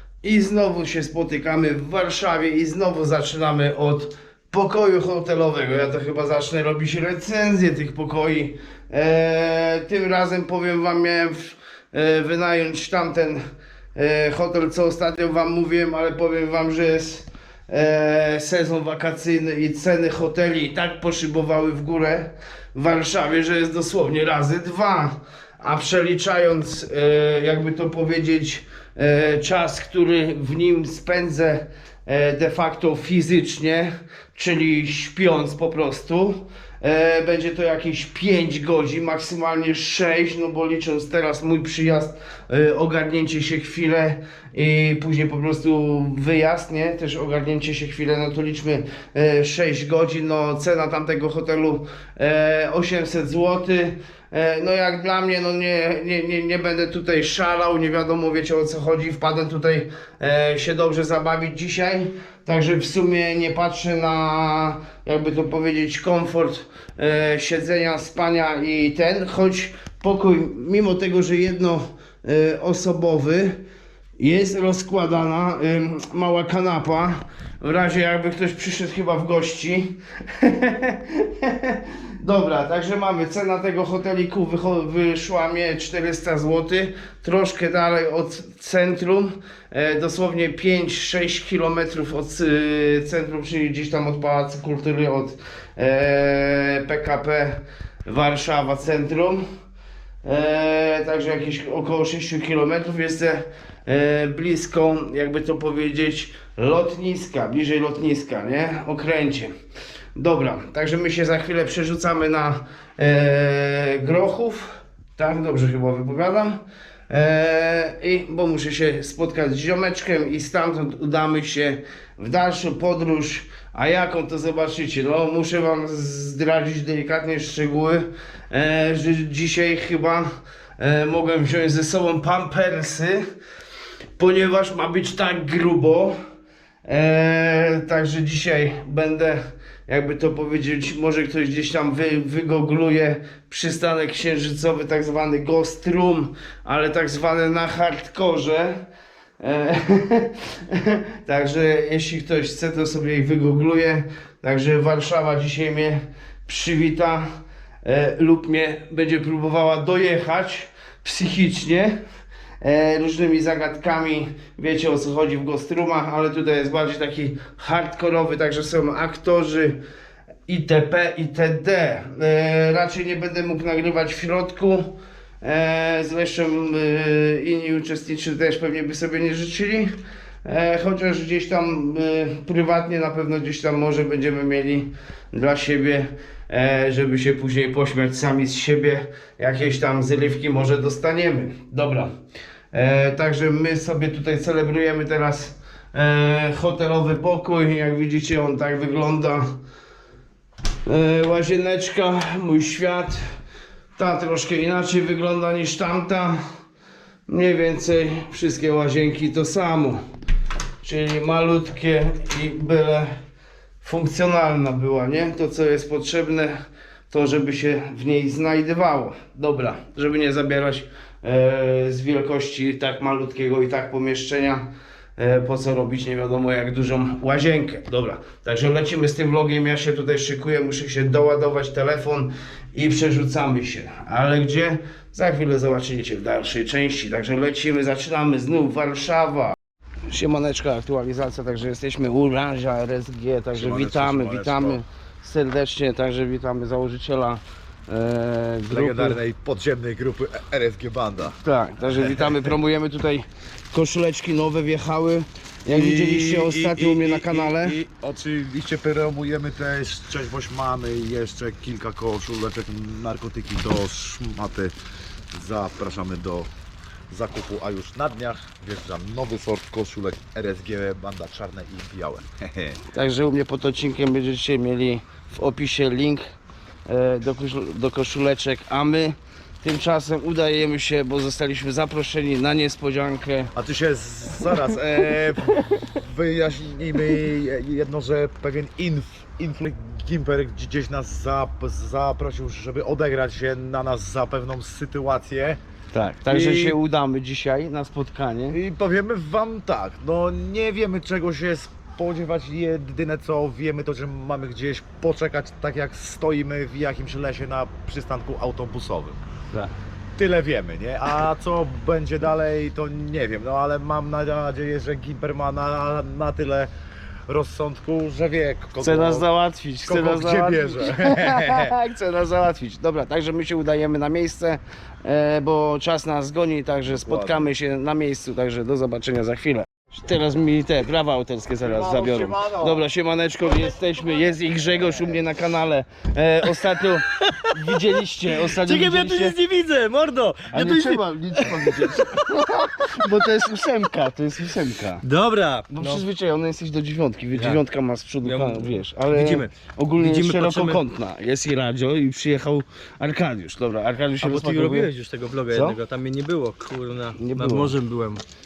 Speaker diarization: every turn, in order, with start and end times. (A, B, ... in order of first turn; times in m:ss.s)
0:00.2-0:13.4 A
0:14.0-1:13.6 A
1:14.2-1:39.4 A
1:40.2-1:49.5 A
1:50.2-2:13.2 A
2:14.2-2:16.2 A
2:16.8-2:28.8 A
2:29.4-2:37.3 A
2:37.8-2:42.0 A
2:42.6-2:49.8 A
2:50.5-2:59.9 A
3:00.4-3:12.1 A
3:12.7-3:19.5 A
3:20.9-3:23.2 A
3:24.0-3:26.4 A
3:27.3-3:30.0 A
3:30.8-3:33.1 A
3:33.8-3:36.6 A
3:37.1-3:44.7 A
3:45.2-3:59.6 A
4:00.1-4:09.2 A
4:03.5-4:04.8 B
4:08.7-4:12.5 B
4:11.4-4:17.8 A
4:15.7-4:24.7 B
4:25.3-4:26.5 B
4:27.1-4:32.8 B
4:32.9-4:36.2 A
4:36.9-4:43.5 A
4:43.6-4:55.6 B
4:55.9-4:58.6 A
4:56.3-4:56.8 B
4:58.5-5:09.2 B
5:10.2-5:16.7 B
5:17.3-5:19.3 B
5:18.8-5:39.4 A
5:19.9-5:21.8 B
5:26.9-5:27.5 B
5:31.6-5:32.8 B
5:38.3-5:43.1 C
5:40.5-5:45.0 A
5:45.0-5:46.0 C
5:45.7-5:54.9 A
5:47.3-5:47.6 C
5:48.2-5:50.8 C
5:54.2-5:58.2 C
5:55.5-5:55.8 A
5:57.2-5:57.8 A